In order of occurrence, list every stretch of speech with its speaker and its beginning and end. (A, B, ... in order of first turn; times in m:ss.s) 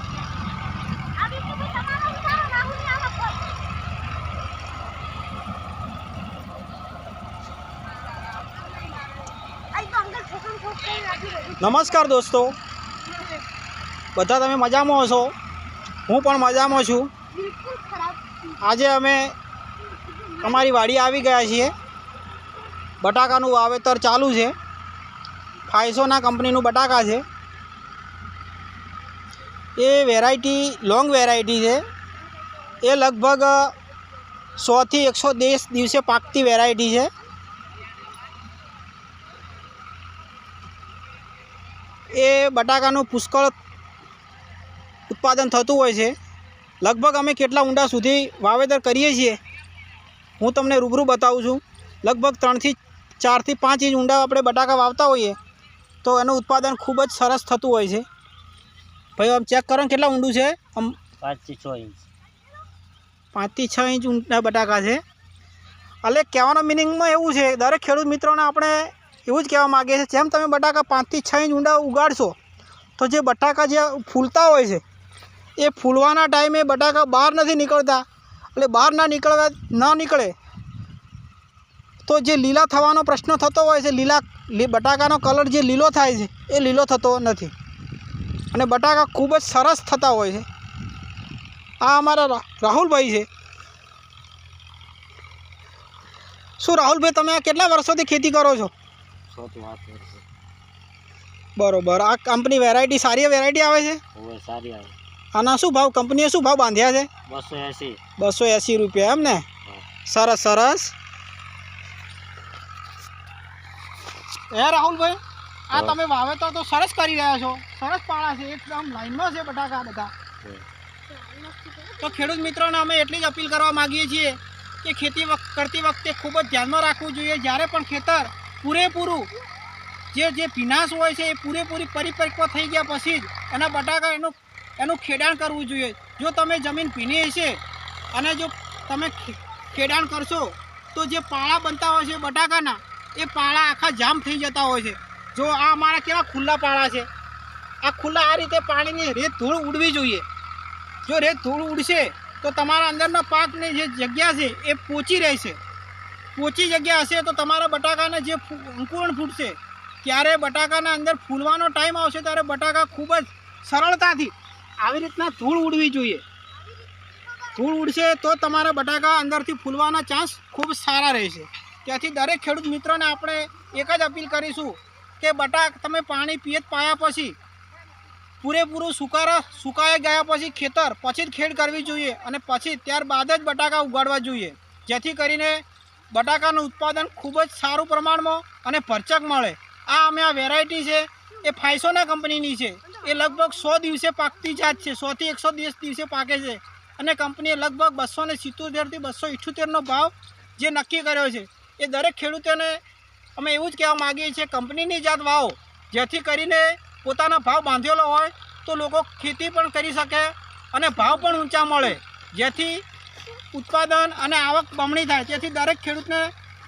0:01.2-0:03.5 A
0:09.7-0:12.0 A
0:11.6-0:12.6 B
0:14.1-0:15.3 B
0:16.1-0:17.1 B
0:17.3-0:18.4 A
0:18.6-0:19.3 B
0:19.8-0:20.8 A
0:20.4-0:21.7 B
0:23.0-0:24.5 B
0:25.7-0:27.2 B
0:29.8-0:31.8 B
0:32.8-0:33.7 B
0:34.6-0:37.1 B
0:42.1-0:43.5 B
0:45.1-0:46.1 B
0:46.8-0:49.4 B
0:50.4-0:55.4 B
0:56.0-0:58.0 B
0:59.2-1:01.0 B
1:01.2-1:02.0 C
1:03.3-1:05.0 B
1:06.0-1:12.4 B
1:13.0-1:14.8 B
1:15.6-1:18.0 B
1:18.6-1:20.3 B
1:22.0-1:27.5 B
1:28.5-1:30.4 B
1:31.8-1:33.3 B
1:36.6-1:38.7 B
1:39.3-1:40.2 C
1:41.6-1:44.0 B
1:44.1-1:45.0 C
1:45.3-1:47.1 B
1:47.3-1:48.0 C
1:48.2-1:49.4 B
1:50.0-1:50.9 B
1:54.5-1:55.2 B
1:55.7-2:00.1 B
1:55.7-1:56.0 C
2:01.1-2:02.4 A
2:02.0-2:09.3 B
2:10.1-2:17.6 B
2:18.1-2:27.1 B
2:27.8-2:30.2 B
2:31.0-2:35.6 B
2:36.3-2:46.2 B
2:47.6-2:57.3 B
2:58.4-3:22.8 B
3:23.4-3:32.8 B
3:33.5-3:36.3 B